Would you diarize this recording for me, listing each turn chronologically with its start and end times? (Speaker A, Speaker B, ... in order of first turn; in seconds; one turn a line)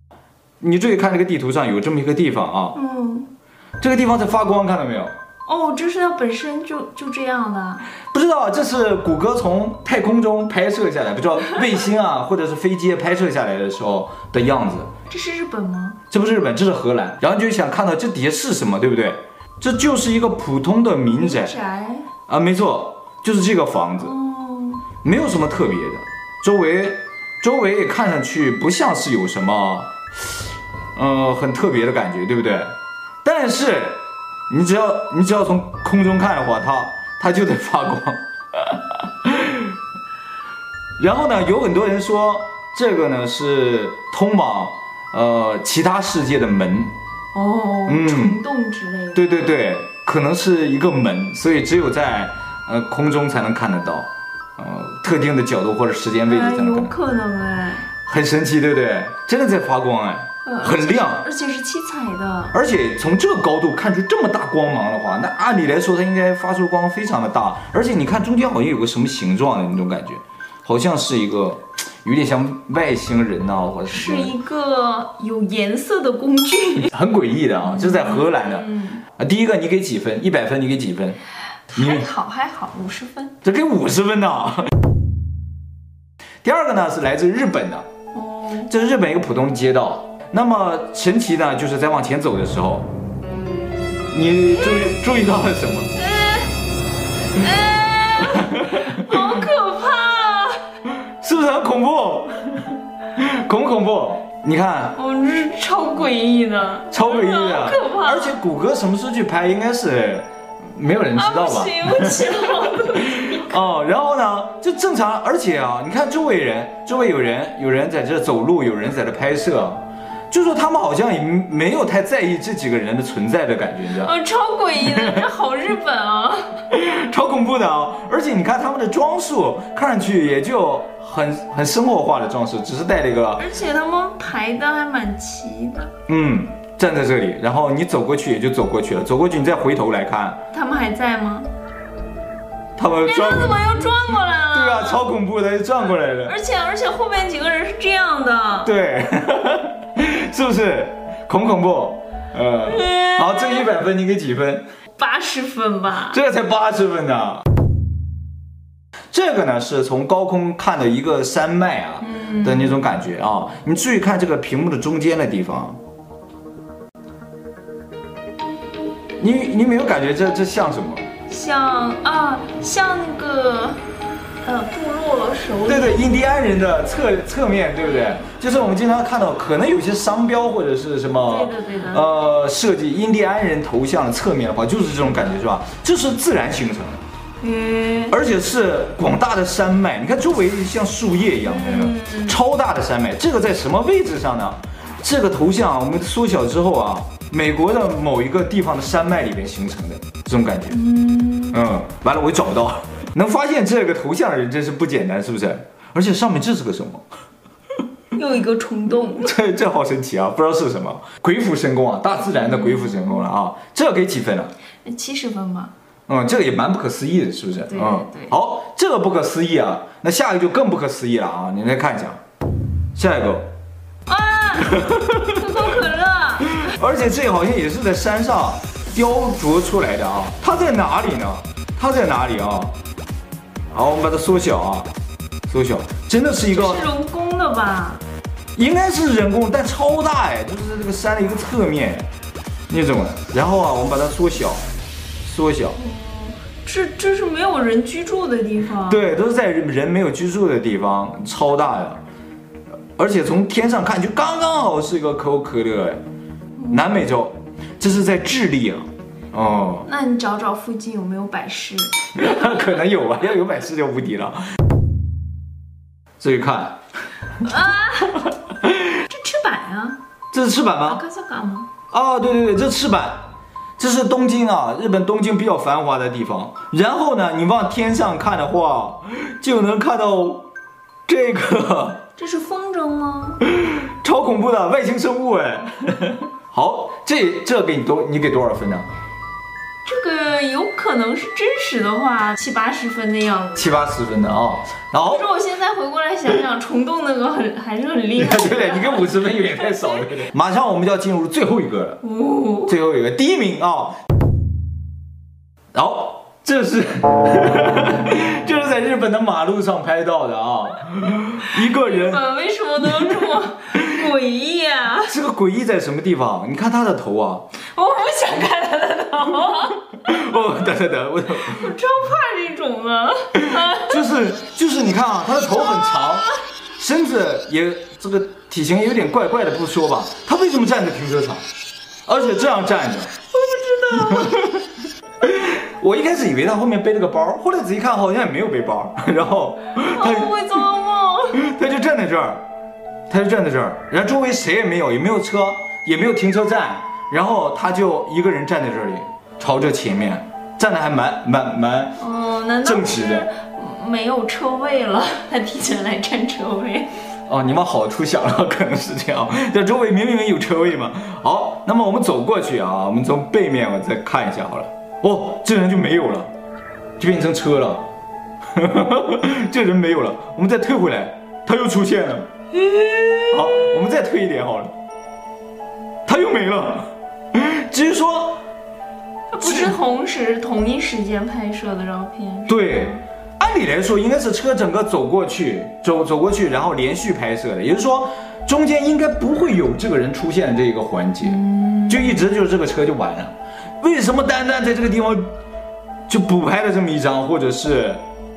Speaker A: 0.6-2.8
Speaker B: 2.7-3.3
Speaker A: 3.8-5.1
Speaker B: 5.5-7.8
Speaker A: 8.1-14.9
Speaker B: 15.1-16.0
Speaker A: 16.1-21.6
Speaker B: 21.2-22.1
Speaker A: 22.3-24.1
Speaker B: 24.0-24.9
Speaker A: 25.0-29.9
Speaker A: 30.9-39.7
Speaker A: 41.0-46.9
Speaker B: 47.3-49.3
Speaker A: 47.9-48.4
Speaker A: 49.1-56.9
Speaker B: 56.2-57.9
Speaker A: 58.0-61.2
Speaker B: 60.4-62.5
Speaker A: 62.5-74.3
Speaker B: 73.9-76.9
Speaker A: 76.9-81.2
Speaker B: 77.6-79.0
Speaker B: 81.7-83.4
Speaker A: 81.8-82.1
Speaker A: 83.4-84.7
Speaker A: 86.4-87.9
Speaker B: 88.1-88.7
Speaker A: 88.7-92.9
Speaker A: 94.1-95.9
Speaker B: 96.0-96.5
Speaker B: 97.3-100.6
Speaker A: 98.5-99.1
Speaker A: 101.2-105.0
Speaker B: 105.0-108.4
Speaker A: 106.9-112.4
Speaker B: 111.1-113.6
Speaker A: 113.0-124.1
Speaker B: 124.0-126.6
Speaker A: 124.8-125.2
Speaker A: 126.7-133.4
Speaker B: 133.4-135.9
Speaker A: 136.1-140.4
Speaker B: 140.5-141.5
Speaker A: 142.8-143.7
Speaker B: 143.0-145.1
Speaker A: 144.5-146.3
Speaker B: 146.2-148.7
Speaker A: 148.6-154.7
Speaker B: 152.7-153.7
Speaker B: 155.0-156.2
Speaker A: 156.1-157.4
Speaker A: 159.1-165.8
Speaker B: 162.0-162.8
Speaker A: 169.2-171.1
Speaker B: 171.3-173.8
Speaker B: 174.4-176.1
Speaker A: 175.7-187.0
Speaker B: 181.2-182.1
Speaker B: 187.4-188.2
Speaker A: 188.1-200.8
Speaker B: 191.4-192.4
Speaker B: 200.7-201.6
Speaker A: 201.5-207.0
Speaker B: 208.1-209.3
Speaker A: 209.1-214.5
Speaker B: 212.2-213.1
Speaker B: 214.8-215.7
Speaker A: 216.1-222.2
Speaker B: 217.7-218.3
Speaker A: 222.9-223.5
Speaker B: 224.1-226.8
Speaker A: 224.7-225.4
Speaker A: 226.6-232.7
Speaker A: 233.7-234.9
Speaker A: 235.5-236.8
Speaker B: 236.5-238.0
Speaker A: 238.6-242.1
Speaker A: 242.7-244.6
Speaker A: 245.2-245.8
Speaker B: 245.8-249.1
Speaker A: 248.8-252.0
Speaker A: 253.0-256.0
Speaker B: 256.6-256.9
Speaker A: 256.7-259.9
Speaker B: 259.8-262.7
Speaker A: 262.1-264.4
Speaker A: 266.2-266.8
Speaker B: 267.4-268.3
Speaker B: 268.9-270.0
Speaker A: 270.3-271.0
Speaker B: 270.8-271.7
Speaker A: 271.9-273.2
Speaker A: 273.8-280.4
Speaker A: 281.1-282.0
Speaker B: 282.2-283.4
Speaker A: 283.5-288.9
Speaker B: 289.8-293.8
Speaker A: 293.6-295.3
Speaker B: 295.0-300.0
Speaker A: 298.2-302.0
Speaker B: 302.0-302.8
Speaker A: 302.7-304.0
Speaker A: 305.7-312.2
Speaker B: 311.5-315.1
Speaker A: 312.8-313.1
Speaker A: 315.1-317.5
Speaker B: 317.7-320.0
Speaker A: 320.0-321.6
Speaker B: 321.4-324.1
Speaker A: 323.4-331.4
Speaker A: 332.1-333.1
Speaker B: 333.3-334.6
Speaker A: 335.2-340.4
Speaker B: 339.8-341.4
Speaker A: 341.4-342.4
Speaker A: 343.1-352.0
Speaker B: 352.0-356.9
Speaker A: 352.6-353.3
Speaker A: 357.3-366.3
Speaker A: 367.0-367.9
Speaker A: 368.5-372.3
Speaker B: 372.5-373.6
Speaker A: 373.3-374.7
Speaker A: 376.1-378.4
Speaker B: 379.3-383.0
Speaker A: 379.4-379.8
Speaker A: 382.5-395.3
Speaker B: 391.2-392.2
Speaker A: 396.1-398.0